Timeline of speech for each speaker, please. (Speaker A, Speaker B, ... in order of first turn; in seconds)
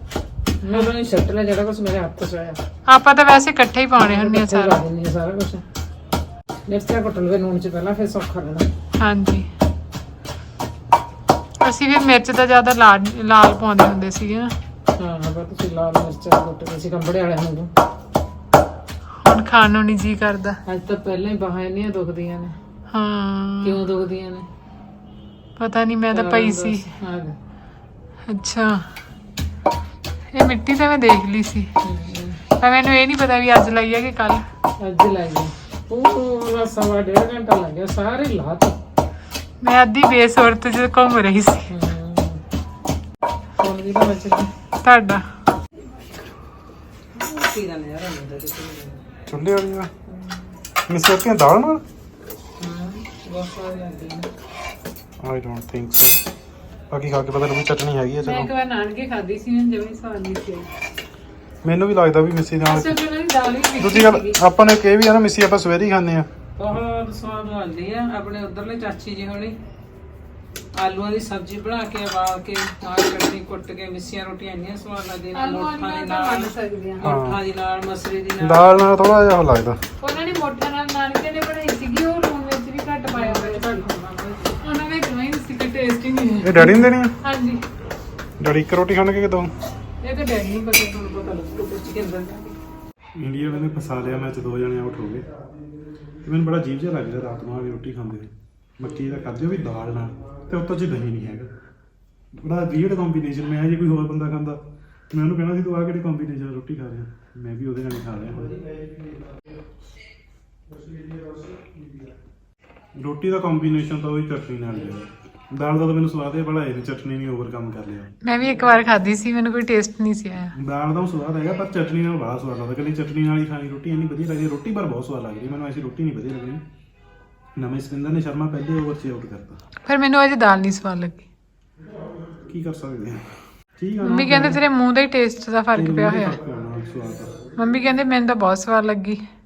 Speaker A: 0.6-2.6, 4.0-5.6, 6.7-8.7, 14.9-17.7, 20.6-22.6, 23.6-24.5, 26.1-27.3, 31.8-32.4, 34.8-38.8, 41.7-42.4, 43.6-44.5, 47.1-49.0, 50.1-50.4, 52.6-54.3, 66.6-69.6, 70.8-78.9, 83.1-84.6, 91.0-92.5
Speaker B: 2.9-4.8, 8.9-9.5, 11.6-14.5, 19.2-20.6, 22.9-23.8, 25.6-26.9, 28.3-28.9, 30.3-31.7, 32.6-34.4, 39.6-41.7, 44.8-45.2, 58.2-60.7, 62.7-64.4, 75.3-77.1, 80.0-83.9, 84.6-87.6, 90.0-91.0, 118.2-120.5, 129.8-131.2, 134.0-136.4, 137.6-139.2
Speaker C: 49.3-49.9, 50.9-51.8, 55.2-56.2, 56.9-58.5, 61.6-63.0, 63.8-66.3, 77.0-77.4, 78.4-79.8, 86.4-87.1, 88.4-89.5, 93.2-95.2, 96.2-101.5, 102.4-104.6, 105.1-108.6, 113.0-118.1, 120.5-126.6, 127.6-129.6, 132.5-133.2, 133.8-134.6, 135.7-137.3